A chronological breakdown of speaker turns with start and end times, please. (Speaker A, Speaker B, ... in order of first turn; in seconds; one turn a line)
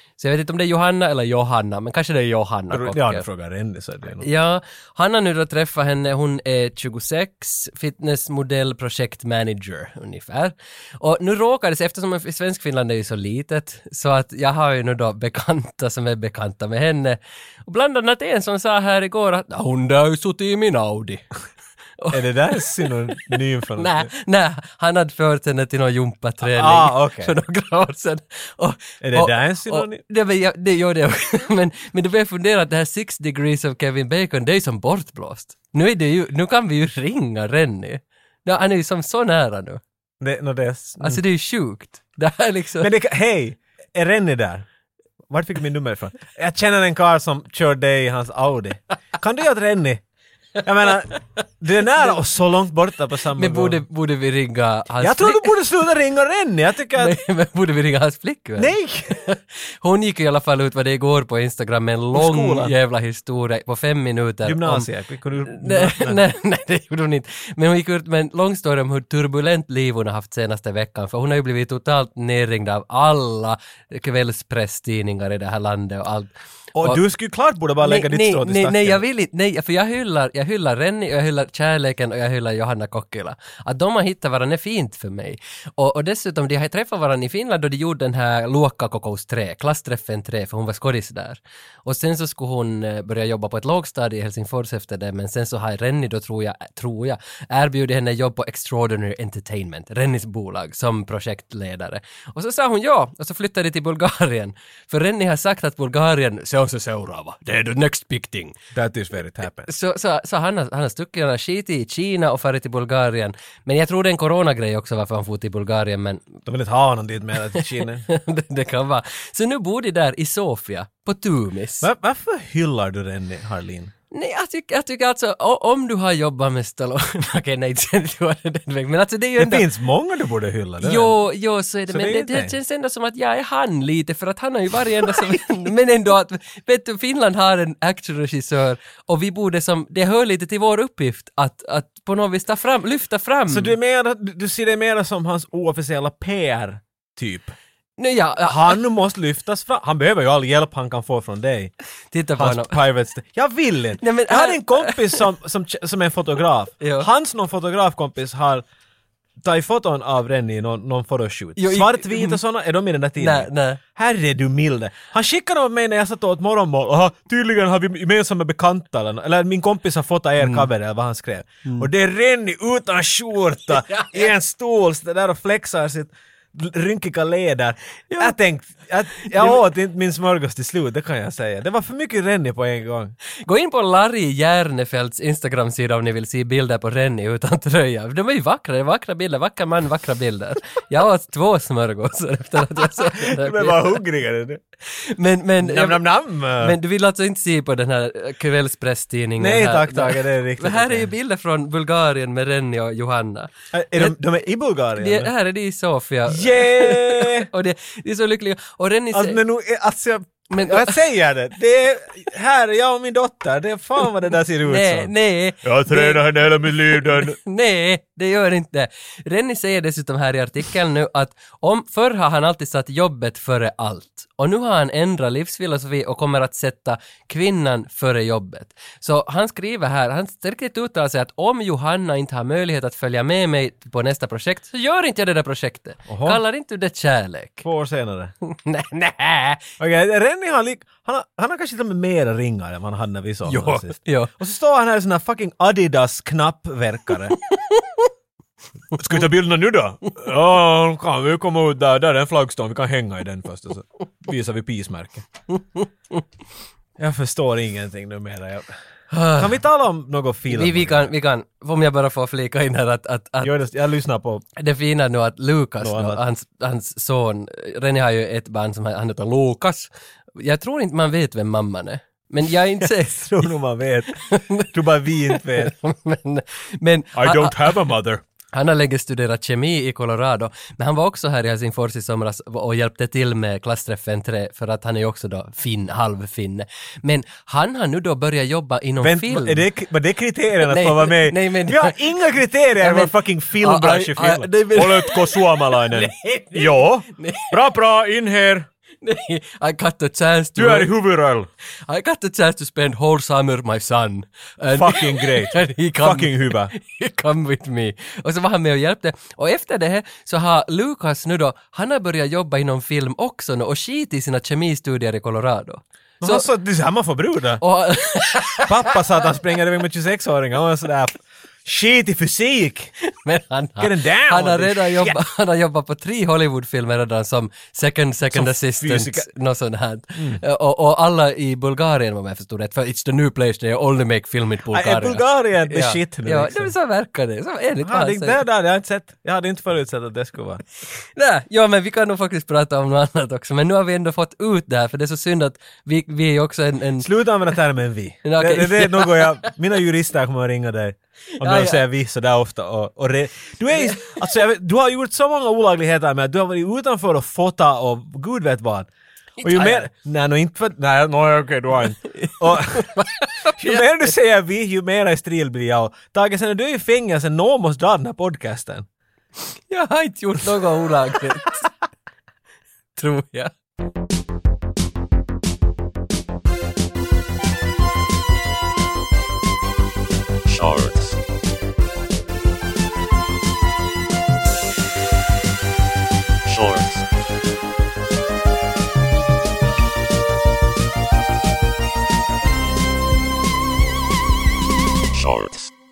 Speaker A: 0.2-3.2
Speaker B: 2.7-4.3
Speaker A: 4.2-21.3
Speaker A: 22.0-39.8
Speaker B: 22.1-24.1
Speaker B: 26.4-27.3
Speaker B: 29.0-30.0
Speaker B: 40.2-41.2
Speaker A: 41.0-42.9
Speaker B: 42.8-44.6
Speaker B: 45.3-50.0
Speaker B: 50.6-53.8
Speaker A: 53.3-55.5
Speaker B: 55.0-57.2
Speaker A: 57.0-64.9
Speaker B: 58.6-59.2
Speaker B: 62.1-62.7
Speaker B: 64.4-66.2
Speaker A: 65.5-76.3
Speaker B: 76.8-79.0
Speaker A: 77.8-108.6
Speaker B: 108.7-109.7
Speaker A: 109.7-116.4
Speaker B: 116.5-118.0
Speaker A: 117.8-121.9
Speaker B: 121.8-123.9
Speaker A: 124.1-129.6
Speaker B: 129.4-131.1
Speaker A: 130.8-143.8
Speaker B: 131.9-132.5
Speaker B: 143.5-147.5
Speaker A: 148.0-148.8
Speaker B: 148.4-151.7
Speaker A: 152.1-152.8
Speaker B: 152.3-158.6
Speaker A: 154.0-155.2
Speaker A: 156.8-157.1
Speaker B: 159.4-183.1
Speaker A: 161.6-162.4
Speaker A: 163.2-163.8
Speaker A: 170.4-170.7
Speaker A: 178.1-178.3
Speaker A: 179.2-179.6
Speaker A: 183.4-194.0
Speaker B: 192.8-194.6
Speaker A: 194.9-196.0
Speaker B: 195.6-196.8
Speaker A: 196.6-204.1
Speaker B: 199.4-201.1
Speaker B: 203.7-205.3
Speaker A: 205.0-209.4
Speaker B: 206.3-207.5
Speaker B: 209.1-217.4
Speaker A: 210.5-210.9
Speaker A: 214.6-216.2
Speaker A: 216.9-237.6
Speaker B: 236.1-236.4
Speaker B: 237.6-238.3
Speaker A: 238.4-239.7
Speaker B: 239.8-247.4
Speaker A: 243.4-244.3
Speaker A: 247.6-248.1
Speaker B: 248.9-255.2
Speaker A: 255.6-256.2
Speaker B: 257.0-258.8
Speaker A: 259.1-259.5
Speaker B: 259.3-261.1
Speaker A: 260.5-263.5
Speaker B: 263.4-264.4
Speaker A: 264.6-273.5
Speaker B: 265.8-266.2
Speaker B: 272.8-275.7
Speaker A: 274.1-274.7
Speaker A: 275.3-277.8
Speaker B: 277.1-278.2
Speaker A: 278.5-289.6
Speaker B: 289.0-298.7
Speaker A: 290.7-292.0
Speaker A: 292.8-297.6
Speaker A: 299.0-300.9
Speaker B: 300.6-301.5
Speaker A: 301.8-316.4
Speaker B: 304.7-306.7
Speaker B: 316.2-317.6
Speaker A: 317.6-318.9
Speaker B: 318.6-322.9
Speaker A: 323.0-338.4
Speaker B: 323.8-325.2
Speaker B: 328.3-329.3
Speaker B: 330.1-330.4
Speaker B: 334.7-336.7
Speaker B: 337.8-340.6
Speaker A: 341.1-347.1
Speaker B: 347.0-358.9
Speaker A: 348.2-349.5
Speaker A: 351.4-351.8
Speaker A: 353.9-354.1
Speaker A: 359.4-359.9
Speaker B: 359.4-362.9
Speaker A: 362.1-363.9
Speaker B: 363.5-368.9
Speaker A: 369.7-371.7
Speaker A: 372.9-373.5
Speaker C: 380.4-381.2
Speaker C: 386.4-387.0
Speaker C: 395.1-395.7